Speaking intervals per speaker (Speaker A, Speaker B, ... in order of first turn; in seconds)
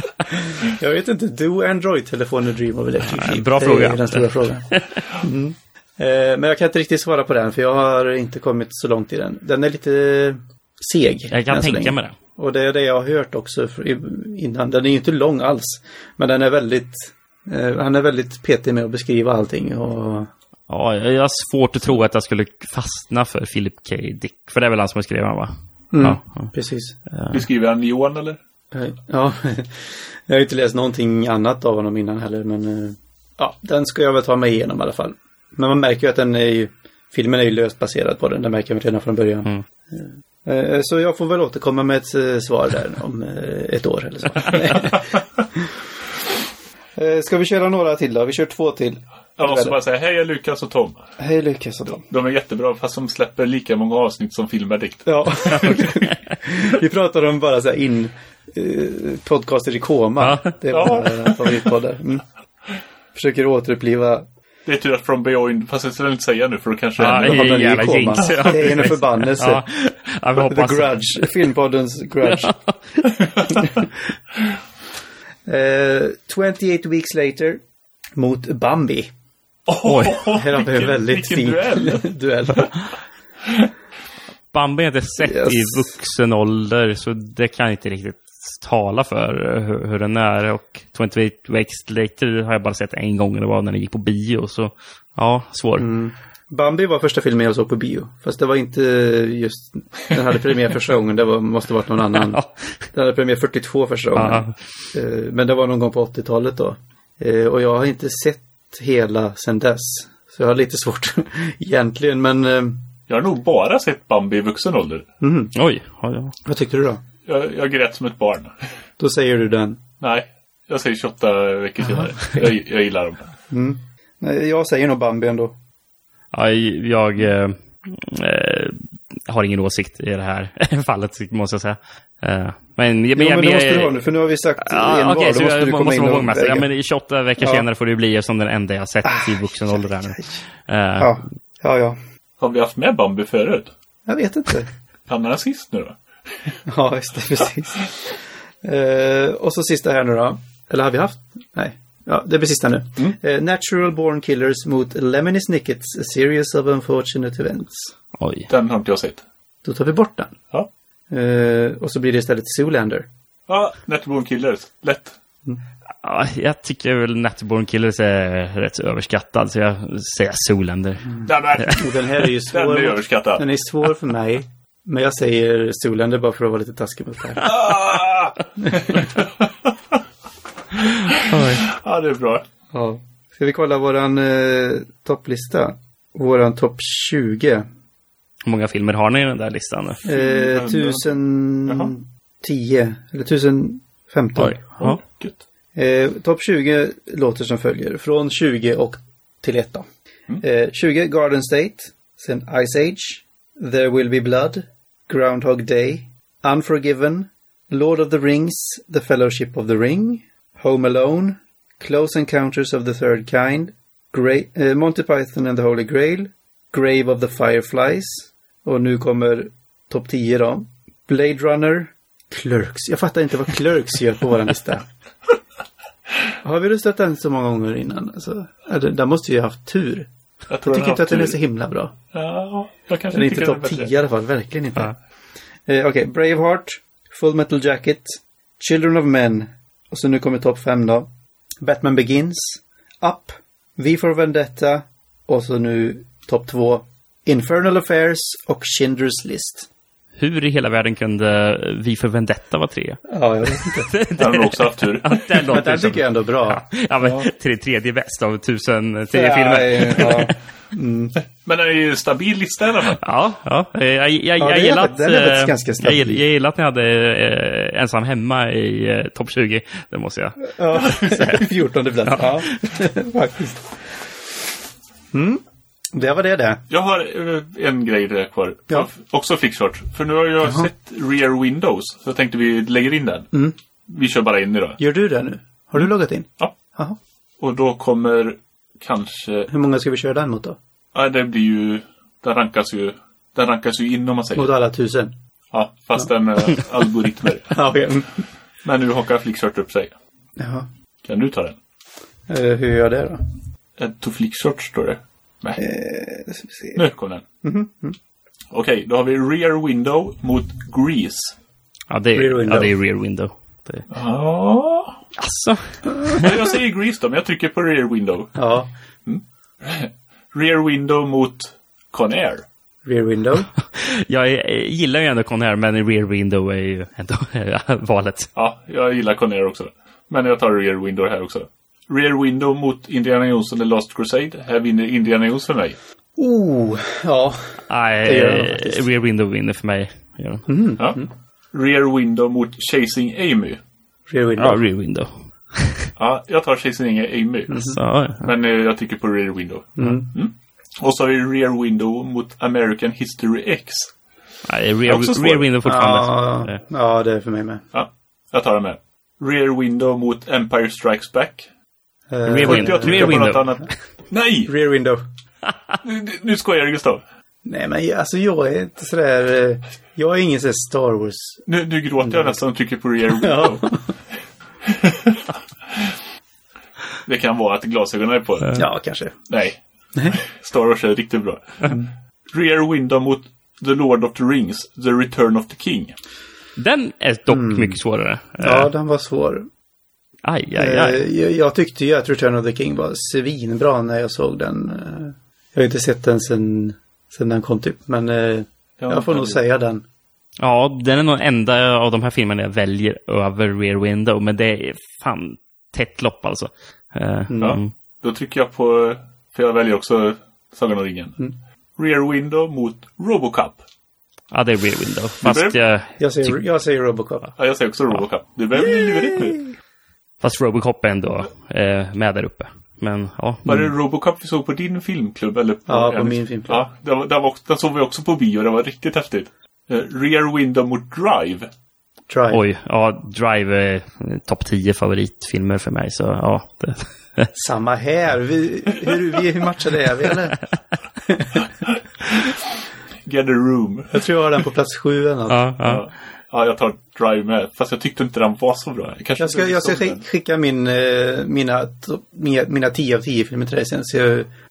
Speaker A: 0.3-20.3, 25.9-26.9, 28.7-45.7, 47.0-49.8, 51.2-52.0, 55.0-62.2, 63.1-64.3, 67.0-69.6, 70.4-72.6, 73.5-73.9, 75.5-77.6, 78.2-79.1, 80.3-82.7, 85.2-85.9, 95.8-102.4, 102.9-112.8, 115.2-115.5, 116.5-117.0, 119.0-119.8, 123.5-125.5, 133.1-136.7, 137.4-137.6, 139.1-140.2, 141.0-142.0, 144.1-144.7, 146.6-157.9, 159.6-160.3, 161.1-163.1, 171.7-177.7, 178.6-179.1, 182.7-187.6, 190.1-194.7, 195.7-199.9, 200.4-224.8, 226.4-230.1, 230.7-231.9, 233.1-235.0, 235.7-241.1, 241.6-249.7, 253.1-253.9, 255.4-256.6, 259.1-261.2, 264.4-266.2, 270.4-273.8, 275.1-276.6, 284.8-287.0, 289.5-290.6, 294.4-295.1, 297.5-298.1, 300.4-300.7, 302.3-303.2, 305.6-306.8, 307.4-307.9, 312.1-312.7, 318.4-318.7, 322.9-323.5, 336.2-338.8, 340.5-341.1, 344.1-344.6, 349.8-350.1, 355.6-357.6, 362.1-363.3, 364.4-365.0, 367.4-371.4, 372.0-372.4, 373.2-373.9, 378.6-379.2, 387.3-387.8, 388.4-389.5, 390.6-399.8, 407.3-407.6, 416.0-417.3, 425.7-426.6, 432.1-432.4, 437.4-440.4, 441.1-441.4, 443.9-445.4, 449.2-454.3
Speaker B: 3.0-5.0, 11.3-12.1, 20.7-26.5, 27.1-27.4, 55.5-56.3, 60.2-60.6, 67.0-71.0, 72.2-72.8, 79.8-80.2, 84.5-95.9, 102.2-102.5, 104.1-104.5, 115.5-116.4, 126.3-133.9, 134.6-141.2, 158.2-158.5, 166.0-171.8, 181.2-181.7, 188.4-190.0, 194.4-195.0, 250.2-253.0, 253.6-260.3, 263.0-271.5, 272.1-272.5, 311.9-313.9, 315.2-316.3, 323.7-328.3, 337.7-340.5, 344.4-345.9, 347.6-348.3, 354.4-356.6, 362.3-363.5, 365.5-365.7, 386.6-388.7, 390.2-391.0, 400.4-407.7, 414.3-416.4, 420.2-423.6, 432.3-437.3, 445.3-445.8
Speaker C: 27.3-28.4, 49.4-51.0, 52.0-55.7, 60.7-61.3, 64.7-67.6, 68.2-68.5, 79.7-82.1, 113.1-115.1, 117.2-118.5, 120.0-123.3, 142.4-143.7, 145.1-146.0, 158.5-159.2, 163.5-165.1, 171.2-173.4, 177.4-179.7, 181.1-182.4, 190.1-191.9, 194.8-195.4, 230.5-231.4, 232.1-233.9, 254.2-255.2, 261.4-263.0, 276.7-283.3, 283.9-284.8, 287.4-289.5, 290.9-294.5, 295.5-297.6, 298.6-299.9, 301.0-301.6, 303.8-305.6, 306.7-307.2, 308.5-311.4, 313.9-315.0, 316.1-318.4, 319.1-322.4, 328.4-335.8, 341.5-343.6, 346.0-353.9, 354.9-355.5, 357.7-361.5, 362.4-364.5, 365.8-367.0, 371.5-373.8, 374.7-375.9, 377.1-378.6, 379.3-381.8, 382.3-385.9, 398.8-399.4, 407.4-411.2, 411.8-413.6, 415.2-415.6, 417.4-419.4, 423.4-431.5, 441.6-442.4, 443.1-444.0, 445.6-450.0